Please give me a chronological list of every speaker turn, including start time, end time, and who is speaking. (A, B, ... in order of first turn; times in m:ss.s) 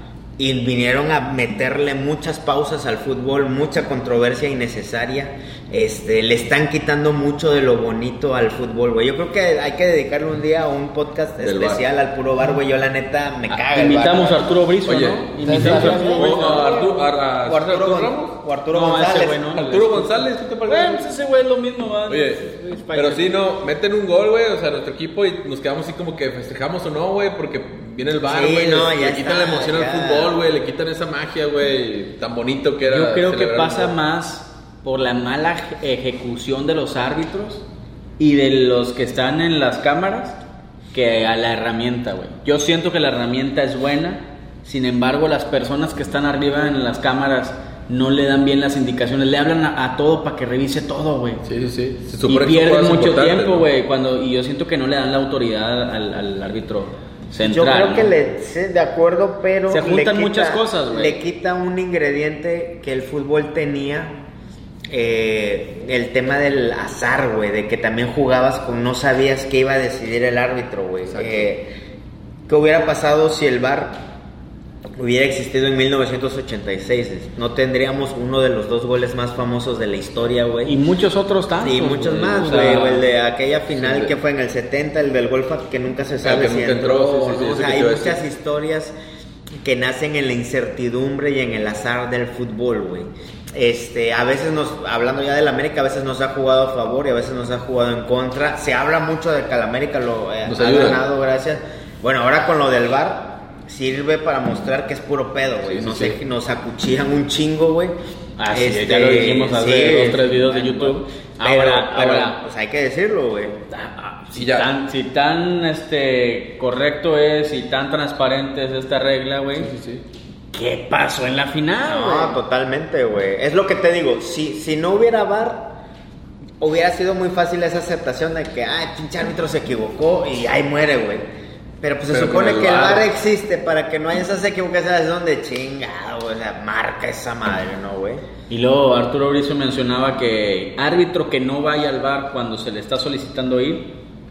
0:00.4-0:14.4 A
0:11.4-0:11.8 B
0:13.5-0:16.8 C
0:14.9-0:18.4 B
0:15.4-0:19.4 A
0:18.7-0:23.3 C
0:19.6-0:21.0 B
0:22.1-0:34.0 B
0:28.3-0:30.3 A
0:32.8-0:37.6 C
0:38.2-0:40.4 C
0:40.9-0:51.4 C
0:51.4-0:53.7 B
0:52.3-0:58.1 C
0:57.4-1:04.2 A
0:59.7-1:01.2 C
1:04.9-1:11.7 A
1:11.1-1:11.5 B
1:12.5-1:14.0 A
1:15.0-1:20.8 A
1:20.6-1:23.1 C
1:21.6-1:29.0 A
1:23.7-1:24.1 B
1:26.2-1:28.2 B
1:29.6-1:48.0 A
1:40.4-1:41.0 B
1:45.6-1:46.2 B
1:48.4-1:52.4 C
1:48.5-1:53.6 A
1:53.7-1:59.7 C
1:54.4-1:54.7 B
1:59.6-2:00.0 B
2:00.5-2:02.4 C
2:01.9-2:05.7 A
2:06.6-2:11.2 A
2:11.8-2:18.2 A
2:12.1-2:13.1 B
2:18.5-2:23.9 C